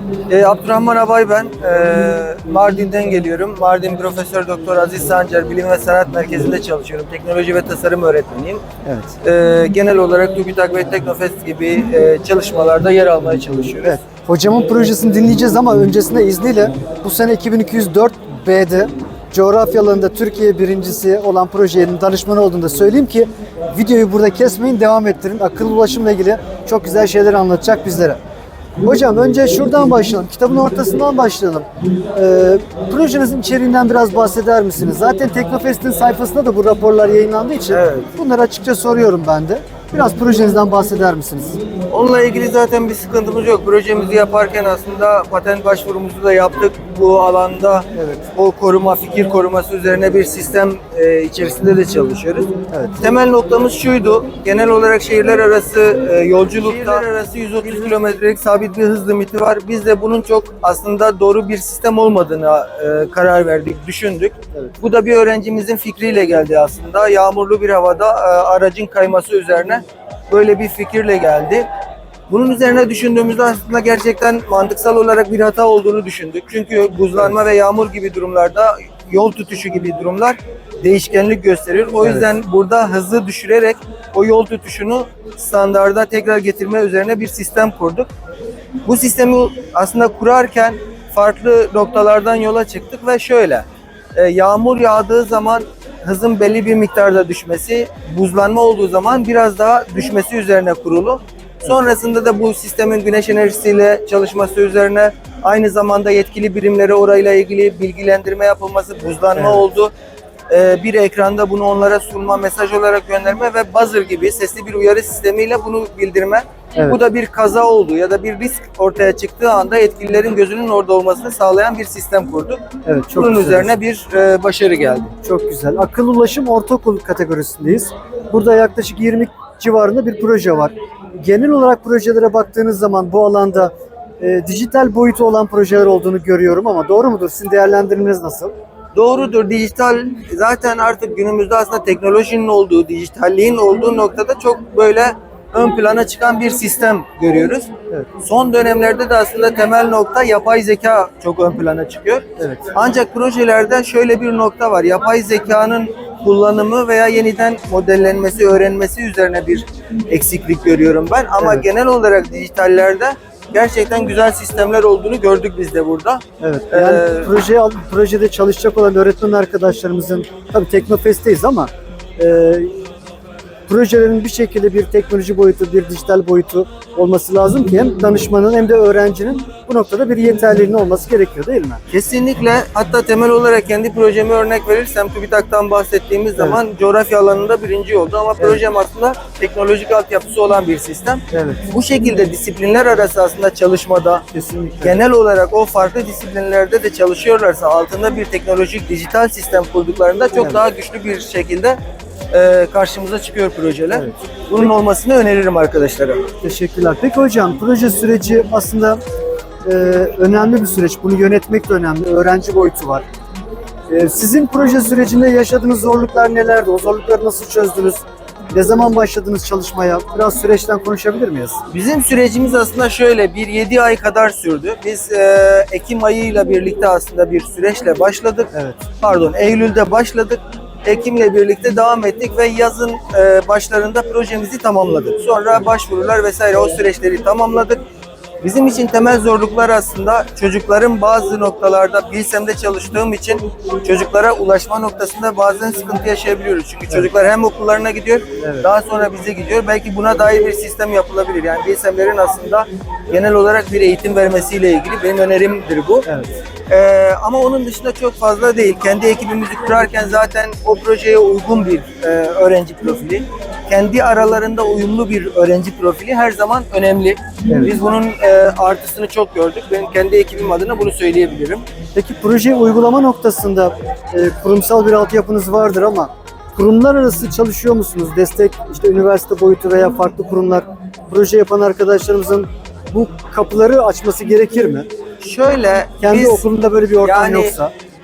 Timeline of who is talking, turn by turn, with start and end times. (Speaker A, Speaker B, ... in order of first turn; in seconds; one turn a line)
Speaker A: 0.3-8.6
Speaker B: 8.8-9.2
Speaker A: 9.2-14.0
Speaker B: 13.8-28.2
Speaker B: 28.8-41.6
Speaker A: 37.7-38.1
Speaker A: 41.9-71.7
Speaker B: 47.9-48.2
Speaker B: 52.7-53.0
Speaker B: 56.6-57.1
Speaker A: 72.3-88.1
Speaker B: 82.0-82.3
Speaker A: 88.8-109.9
Speaker B: 109.3-109.6
Speaker A: 110.5-122.6
Speaker B: 122.8-123.7
Speaker A: 123.1-125.1
Speaker B: 125.2-138.5
Speaker A: 138.9-167.3
Speaker B: 152.4-152.7
Speaker B: 161.4-161.7
Speaker B: 166.4-172.8
Speaker B: 173.7-181.8
Speaker A: 181.9-194.2
Speaker B: 191.3-191.6
Speaker B: 194.3-195.0
Speaker A: 194.8-201.8
Speaker A: 202.3-206.2
Speaker B: 203.9-204.2
Speaker B: 206.4-209.0
Speaker B: 209.7-213.1
Speaker B: 213.9-221.6
Speaker A: 221.7-237.8
Speaker B: 228.5-228.8
Speaker A: 238.4-256.1
Speaker B: 248.4-248.7
Speaker B: 256.1-256.3
Speaker A: 256.7-271.6
Speaker B: 267.5-267.8
Speaker B: 271.9-284.9
Speaker A: 285.2-286.4
Speaker B: 286.0-287.7
Speaker A: 287.0-287.6